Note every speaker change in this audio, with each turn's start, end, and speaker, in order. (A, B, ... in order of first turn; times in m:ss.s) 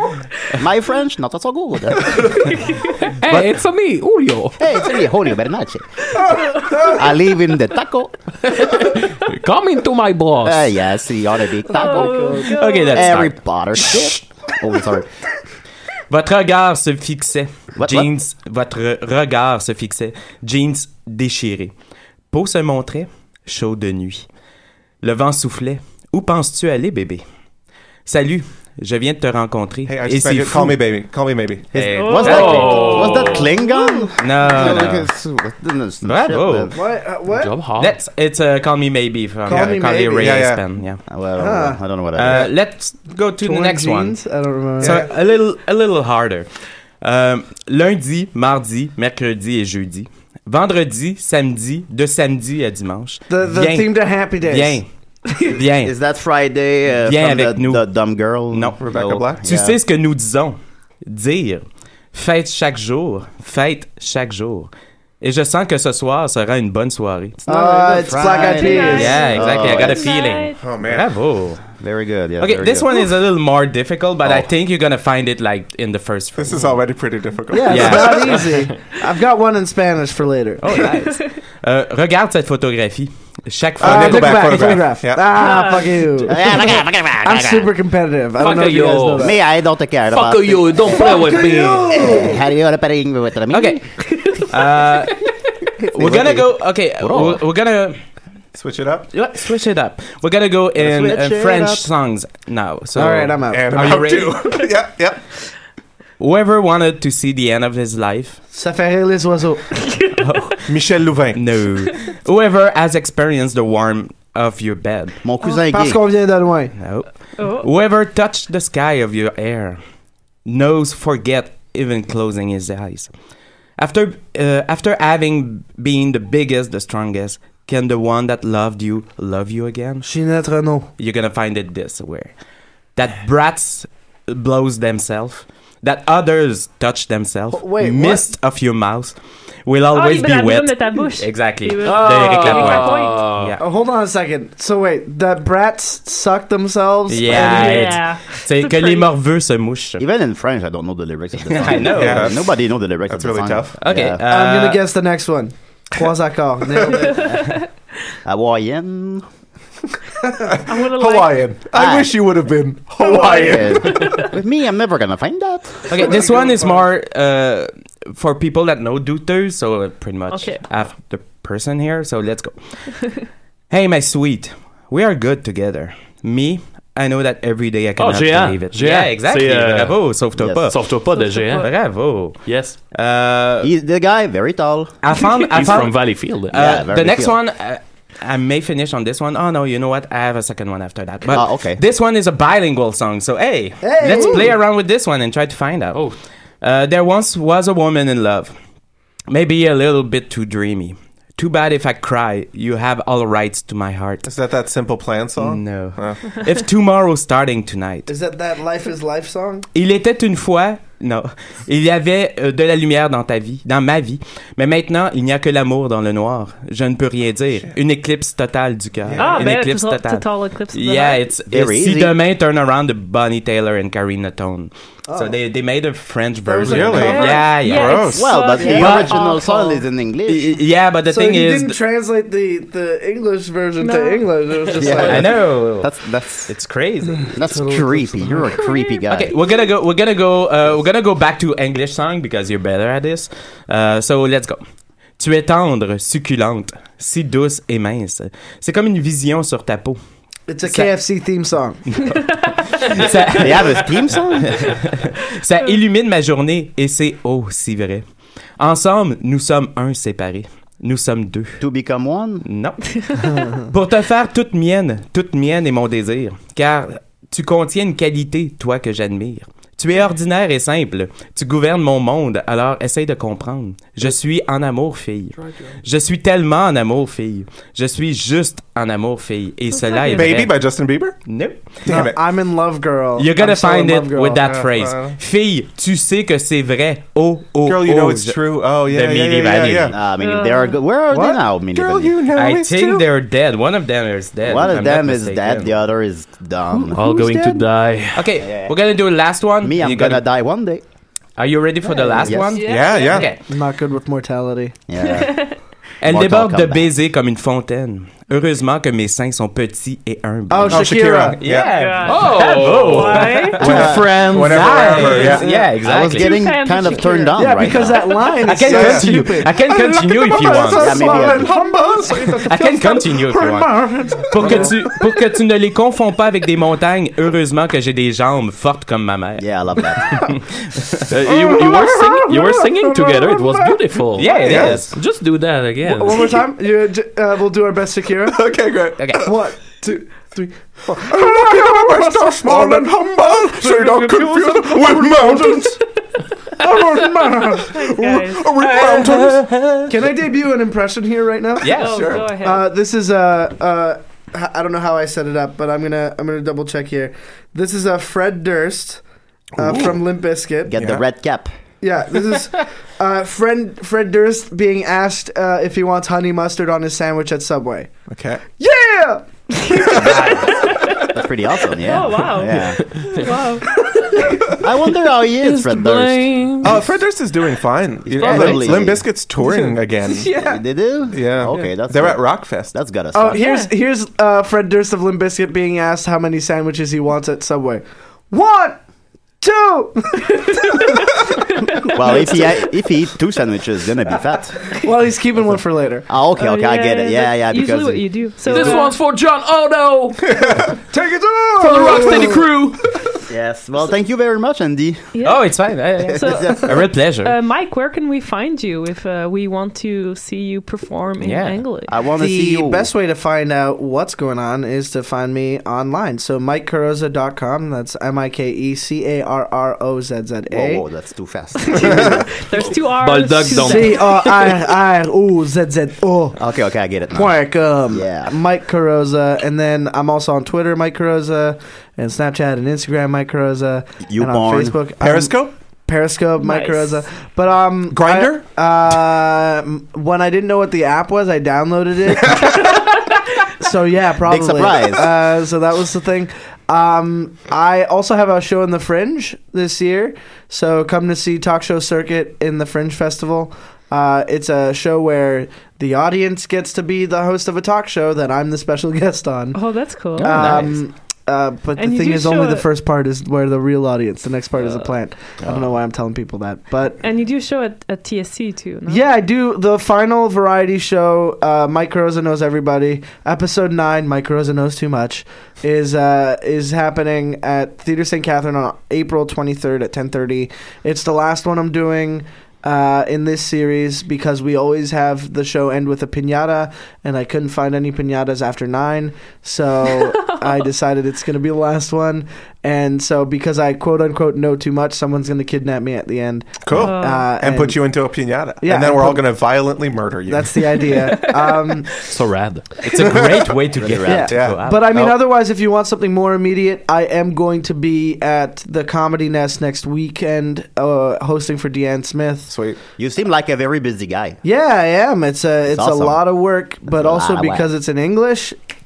0:00.5-0:02.4 A
0:02.3-0:03.1 B
0:03.2-0:04.8 C
0:04.6-0:06.1 A
0:06.3-0:06.9 B
0:06.8-0:08.2 A
0:08.4-0:10.8 C
0:10.4-0:12.3 A
0:11.6-0:13.2 B
0:11.8-0:12.6 D
0:12.5-0:13.4 E
0:12.9-0:15.1 A
0:16.1-0:21.7 E
0:17.7-0:18.1 A
0:22.3-0:24.2 E
0:25.0-0:27.2 E
0:28.0-0:31.0 E
0:29.8-0:31.7 F
0:31.7-0:33.3 E
0:31.7-0:36.7 A
0:31.9-0:34.1 B
0:32.3-0:33.4 C
0:34.2-0:35.1 E
0:36.0-0:36.8 E
0:36.7-0:37.5 D
0:37.2-0:38.0 C
0:37.8-0:41.0 E
0:39.5-0:40.4 D
0:39.5-0:40.7 F
0:41.0-0:42.5 A
0:41.4-0:41.8 D
0:42.1-0:44.2 E
0:43.4-0:45.1 D
0:44.8-0:54.9 E
0:44.8-0:45.1 F
0:53.3-0:54.8 D
0:55.5-0:55.9 E
0:55.6-0:59.7 A
0:57.0-0:57.9 E
0:58.5-1:07.4 E
0:58.8-0:59.4 F
1:07.4-1:10.1 A
1:07.5-1:09.2 D
1:08.2-1:10.7 B
1:08.8-1:11.8 E
1:10.6-1:11.1 F
1:11.7-1:13.0 A
1:12.4-1:16.9 E
1:16.3-1:18.4 F
1:17.5-1:20.6 D
1:17.6-1:18.6 E
1:20.6-1:24.8 E
1:23.8-1:25.4 F
1:23.8-1:26.4 D
1:25.3-1:26.3 B
1:26.3-1:27.7 A
1:27.2-1:29.4 D
1:28.4-1:29.4 C
1:29.2-1:31.1 A
1:30.1-1:32.1 C
1:30.9-1:32.4 D
1:31.9-1:33.9 A
1:33.5-1:33.8 E
1:34.0-1:34.6 B
1:34.5-1:35.2 E
1:35.8-1:37.4 A
1:35.9-1:38.0 E
1:38.5-1:39.1 F
1:39.1-1:44.5 E
1:40.8-1:41.9 A
1:43.0-1:43.8 D
1:43.5-1:45.2 F
1:46.2-1:48.4 E
1:48.5-1:49.8 D
1:49.8-1:50.2 B
1:50.2-1:55.2 E
1:50.7-1:51.6 F
1:55.2-1:56.0 A
1:55.6-1:56.7 D
1:56.8-1:59.8 E
1:57.4-1:57.7 B
2:00.4-2:03.1 E
2:03.8-2:10.1 E
2:10.0-2:10.9 D
2:11.0-2:12.3 E
2:12.9-2:23.6 E
2:17.5-2:18.2 D
2:19.9-2:23.3 B
2:21.8-2:23.5 C
2:23.6-2:27.9 D
2:27.1-2:30.0 E
2:27.3-2:29.1 B
2:30.0-2:34.2 A
2:31.5-2:32.4 E
2:31.9-2:33.8 F
2:33.8-2:34.8 E
2:34.2-2:37.2 D
2:37.0-2:37.6 B
2:37.1-2:37.5 A
2:38.2-2:39.2 A
2:40.5-2:44.3 F
2:40.6-2:41.5 B
2:41.7-2:42.1 A
2:43.0-2:44.3 B
2:43.0-2:45.9 A
2:45.9-2:52.8 E
2:46.1-2:46.8 D
2:50.3-2:50.7 B
2:53.0-2:53.2 B
2:53.7-3:00.9 E
2:58.0-3:00.1 C
3:00.4-3:00.7 A
3:00.7-3:01.7 C
3:01.0-3:01.7 B
3:01.5-3:03.7 E
3:02.4-3:02.8 C
3:03.6-3:05.0 A
3:05.0-3:18.5 E
3:05.1-3:06.6 C
3:06.5-3:07.4 A
3:11.3-3:11.8 A
3:13.8-3:14.6 D
3:19.3-3:24.3 E
3:24.2-3:26.4 F
3:25.4-3:28.1 E
3:28.1-3:29.7 D
3:29.7-3:48.2 E
3:39.0-3:39.5 F
3:39.1-3:41.3 B
3:41.5-3:42.1 A
3:45.1-3:45.4 D
3:46.4-3:47.4 D
3:46.6-3:48.3 F
3:46.9-3:49.8 B
3:48.1-3:50.6 A
3:48.6-3:49.2 D
3:48.7-3:49.2 E
3:50.3-3:51.8 E
3:51.1-3:55.3 D
3:53.8-3:54.4 B
3:54.7-3:56.5 A
3:54.8-3:55.9 E
3:56.5-3:57.6 E
3:57.2-3:58.6 D
3:57.3-3:59.4 A
3:58.4-3:59.7 B
3:59.1-4:04.6 E
4:05.2-4:10.0 E
4:10.5-4:11.8 D
4:10.6-4:10.9 E
4:12.1-4:12.9 B
4:12.7-4:18.0 E
4:13.4-4:14.8 A
4:18.6-4:21.6 E
4:21.6-4:22.4 A
4:22.4-4:42.1 E
4:22.8-4:23.5 B
4:39.7-4:40.4 B
4:40.1-4:41.2 F
4:41.8-4:42.2 F
4:41.8-4:44.4 D
4:43.2-4:50.0 E
4:44.4-4:45.2 F
4:47.6-4:49.9 F
4:49.9-4:52.2 A
4:50.1-4:50.8 B
4:51.1-4:51.4 D
4:51.7-4:53.1 F
4:52.3-4:55.8 E
4:54.4-4:57.0 A
4:56.7-4:57.6 D
4:56.9-4:58.2 C
4:58.1-5:00.3 E
4:58.4-4:58.7 A
4:59.6-5:00.8 A
5:01.4-5:03.4 E
5:01.9-5:02.3 D
5:02.2-5:02.6 A
5:02.4-5:03.3 B
5:02.7-5:03.2 F
5:03.5-5:04.8 D
5:04.9-5:05.5 A
5:05.0-5:05.6 B
5:06.0-5:16.4 E
5:06.0-5:06.9 A
5:10.5-5:11.4 D
5:10.7-5:11.7 F
5:11.4-5:13.8 B
5:12.0-5:15.4 C
5:13.6-5:15.5 F
5:13.6-5:14.0 A
5:15.3-5:18.2 B
5:15.6-5:18.2 A
5:17.4-5:25.0 D
5:18.4-5:21.1 E
5:18.6-5:19.3 F
5:20.8-5:21.5 A
5:21.2-5:22.3 B
5:22.3-5:31.1 E
5:24.4-5:24.7 F
5:29.4-5:30.3 A
5:31.1-5:36.4 C
5:31.2-5:33.8 D
5:34.1-5:35.0 E
5:34.4-5:34.9 A
5:34.5-5:34.8 F
5:35.8-5:38.4 D
5:38.3-5:39.4 F
5:39.0-5:39.3 E
5:39.2-5:42.9 D
5:41.0-5:45.8 F
5:45.1-5:45.5 D
5:46.6-5:47.8 D
5:46.6-5:49.6 F
5:47.6-5:49.2 B
5:49.3-5:49.9 E
5:49.9-5:59.0 D
5:51.6-5:52.2 E
5:51.7-5:52.6 B
5:51.8-5:52.2 F
5:59.6-6:00.0 F
5:59.6-6:00.7 D
6:00.6-6:01.5 A
6:00.8-6:01.0 F
6:01.8-6:07.9 D
6:08.1-6:08.4 F
6:08.6-6:10.3 D
6:09.8-6:14.4 B
6:11.0-6:12.8 A
6:14.6-6:16.8 A
6:15.3-6:16.8 C
6:16.6-6:20.3 F
6:18.0-6:19.1 A
6:18.2-6:18.8 C
6:19.4-6:20.6 D
6:20.3-6:23.4 A
6:21.1-6:22.7 F
6:23.1-6:28.8 D
6:23.3-6:23.7 B
6:29.4-6:30.3 D
6:30.5-6:31.1 B
6:31.6-6:32.5 B
6:31.9-6:34.8 A
6:34.8-6:36.1 D
6:35.3-6:38.8 A
6:36.4-6:39.0 B
6:38.4-6:40.4 C
6:40.3-6:40.8 F
6:40.9-6:42.5 D
6:41.6-6:42.9 C
6:43.3-6:45.1 A
6:45.1-6:45.5 B
6:45.2-6:47.4 E
6:46.1-6:51.9 B
6:46.1-6:46.7 A
6:51.2-6:51.7 E
6:51.9-6:52.9 A
6:52.2-7:00.8 D
7:00.5-7:02.3 A
7:01.6-7:04.4 B
7:03.0-7:04.1 C
7:03.6-7:06.4 D
7:06.3-7:08.3 A
7:07.1-7:22.7 D
7:14.1-7:14.8 A
7:15.0-7:15.5 F
7:16.4-7:17.0 B
7:17.9-7:18.4 F
7:23.6-7:39.6 D
7:24.2-7:25.1 A
7:39.5-7:40.6 B
7:40.2-7:47.0 D
7:40.2-7:40.8 E
7:41.8-7:42.7 B
7:47.0-7:49.0 B
7:48.9-8:18.0 D
8:09.8-8:10.6 B
8:16.6-8:20.8 F
8:16.7-8:17.3 B
8:18.6-8:19.6 D
8:20.3-8:21.9 D
8:22.1-8:22.7 C
8:22.8-8:25.2 E
8:23.1-8:23.5 F
8:23.8-8:24.4 A
8:24.0-8:32.5 D
8:24.3-8:24.6 F
8:32.5-8:32.8 F
8:33.0-8:34.4 A
8:34.4-8:38.6 D
8:35.7-8:36.2 A
8:36.9-8:37.7 A